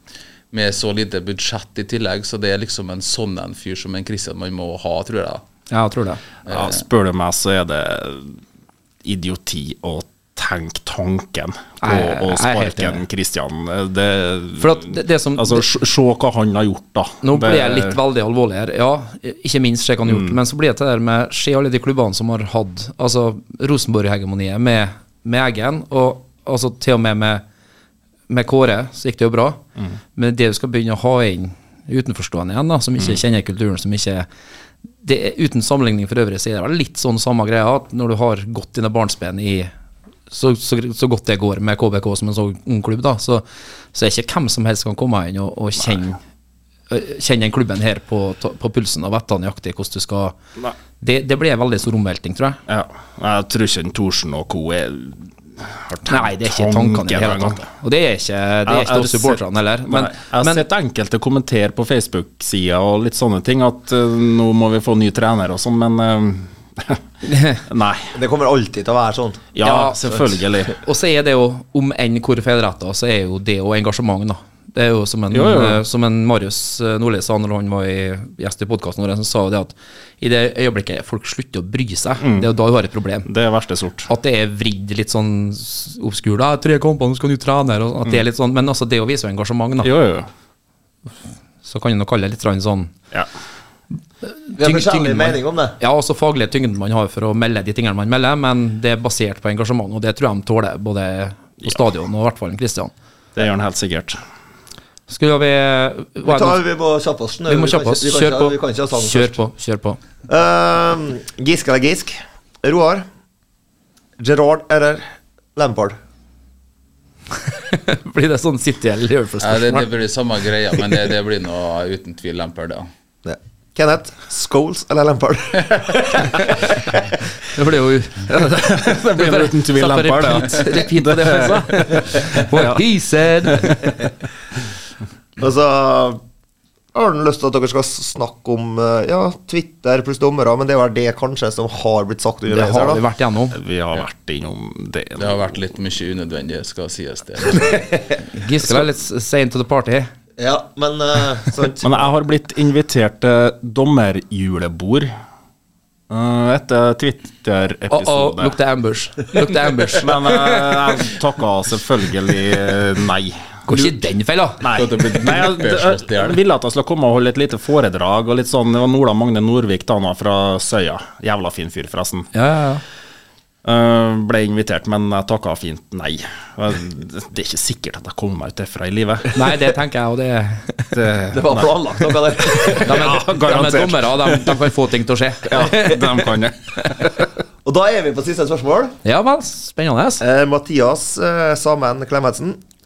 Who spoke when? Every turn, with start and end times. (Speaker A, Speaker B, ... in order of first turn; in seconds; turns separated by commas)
Speaker A: 0.5-5.4, Speaker B: 5.7-6.2, Speaker A: 6.5-6.8, Speaker C: 6.5-8.4, Speaker C: 9.0-18.0, Speaker B: 11.8-13.0, Speaker B: 14.6-15.7, Speaker B: 17.2-27.4, Speaker C: 20.1-20.4, Speaker B: 28.3-29.6, Speaker B: 30.2-34.3, Speaker B: 35.0-39.7, Speaker B: 40.3-46.2, Speaker B: 46.9-50.4, Speaker B: 51.0-52.6, Speaker C: 52.7-57.7, Speaker B: 56.1-60.6, Speaker C: 58.7-67.0, Speaker B: 67.3-67.6, Speaker C: 67.7-68.1, Speaker D: 68.1-69.5, Speaker C: 69.5-70.8, Speaker B: 69.6-83.3, Speaker C: 75.3-75.8, Speaker C: 82.2-82.5, Speaker C: 83.2-84.1, Speaker B: 84.1-89.9, Speaker C: 89.8-90.3, Speaker B: 91.6-92.9, Speaker B: 94.2-102.9, Speaker D: 94.6-95.8, Speaker C: 103.3-104.2, Speaker B: 105.1-106.6, Speaker D: 106.2-109.4, Speaker B: 107.5-110.0, Speaker D: 110.3-113.0, Speaker D: 114.2-115.0, Speaker D: 115.6-116.0, Speaker B: 117.5-119.9, Speaker A: 119.4-122.9, Speaker D: 123.2-127.0, Speaker B: 127.5-134.0, Speaker C: 128.3-132.8, Speaker D: 135.4-136.2, Speaker D: 136.9-143.0, Speaker B: 142.5-143.6, Speaker C: 143.5-145.6, Speaker A: 145.2-148.0, Speaker B: 148.3-150.1, Speaker D: 150.4-152.0, Speaker C: 151.8-155.1, Speaker C: 156.1-158.6, Speaker B: 157.9-161.0, Speaker C: 159.9-163.9, Speaker B: 163.7-164.6, Speaker C: 164.6-172.3, Speaker A: 164.7-166.4, Speaker B: 172.3-172.8, Speaker C: 173.6-179.3, Speaker B: 179.3-181.0, Speaker C: 180.9-184.6, Speaker D: 181.3-183.1, Speaker B: 182.7-186.9, Speaker C: 185.5-187.2, Speaker D: 187.6-189.0, Speaker B: 189.0-190.2, Speaker D: 190.2-192.6